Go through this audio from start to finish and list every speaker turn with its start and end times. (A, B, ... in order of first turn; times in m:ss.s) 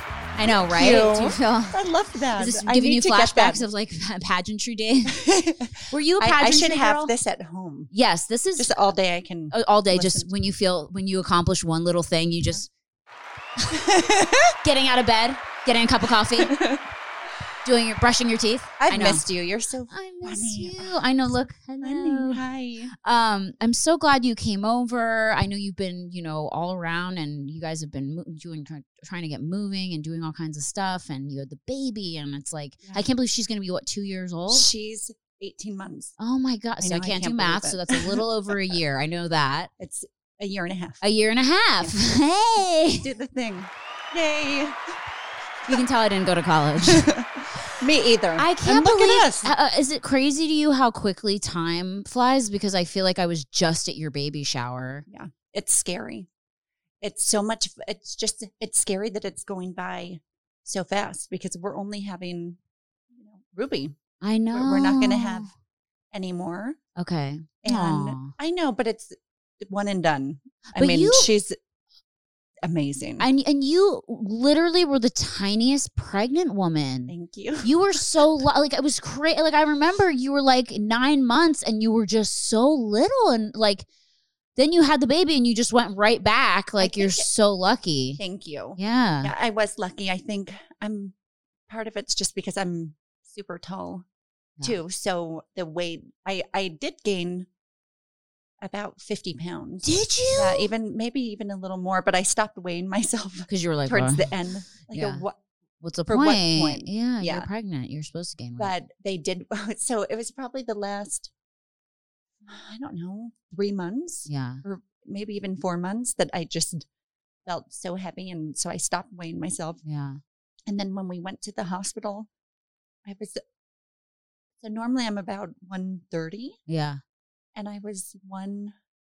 0:00.4-0:03.6 A
0:00.4-0:01.8 B
0:02.4-0:05.2 B
0:05.1-0:07.9 A
0:05.9-0:07.1 B
0:07.9-0:08.8 B
0:08.6-0:10.3 A
0:09.5-0:12.7 B
0:13.7-0:14.5 A
0:14.6-0:16.6 B
0:16.4-0:16.8 A
0:17.6-0:19.2 B
0:18.8-0:21.0 A
0:19.9-0:22.4 B
0:21.8-0:22.9 A
0:23.0-0:34.7 B
0:34.5-0:36.2 A
0:36.2-0:39.7 B
0:36.8-0:38.8 A
0:39.8-0:41.0 A
0:41.0-0:43.0 B
0:42.9-0:44.9 A
0:45.7-0:47.1 B
0:46.8-0:49.5 A
0:48.4-0:55.0 B
0:55.1-0:56.3 A
0:57.0-1:02.6 A
1:03.1-1:04.0 A
1:04.2-1:05.5 B
1:04.5-1:05.5 A
1:06.1-1:06.8 A
1:07.0-1:08.3 B
1:07.6-1:11.6 A
1:10.7-1:11.3 B
1:12.6-1:13.3 A
1:13.2-1:23.9 B
1:17.1-1:18.0 A
1:24.6-1:28.2 B
1:26.8-1:27.2 A
1:28.2-1:31.1 A
1:28.8-1:29.3 B
1:31.7-1:34.0 A
1:34.6-1:37.5 A
1:38.6-1:45.4 A
1:39.8-1:40.7 B
1:43.5-1:45.2 B
1:45.8-1:48.7 B
1:46.1-1:47.5 A
1:48.6-1:51.3 A
1:52.4-1:56.8 A
1:54.2-1:54.6 B
1:57.4-1:59.8 A
1:59.8-2:00.2 B
2:00.7-2:02.3 A
2:03.0-2:03.4 A
2:04.6-2:06.6 A
2:06.7-2:07.0 B
2:07.5-2:08.7 A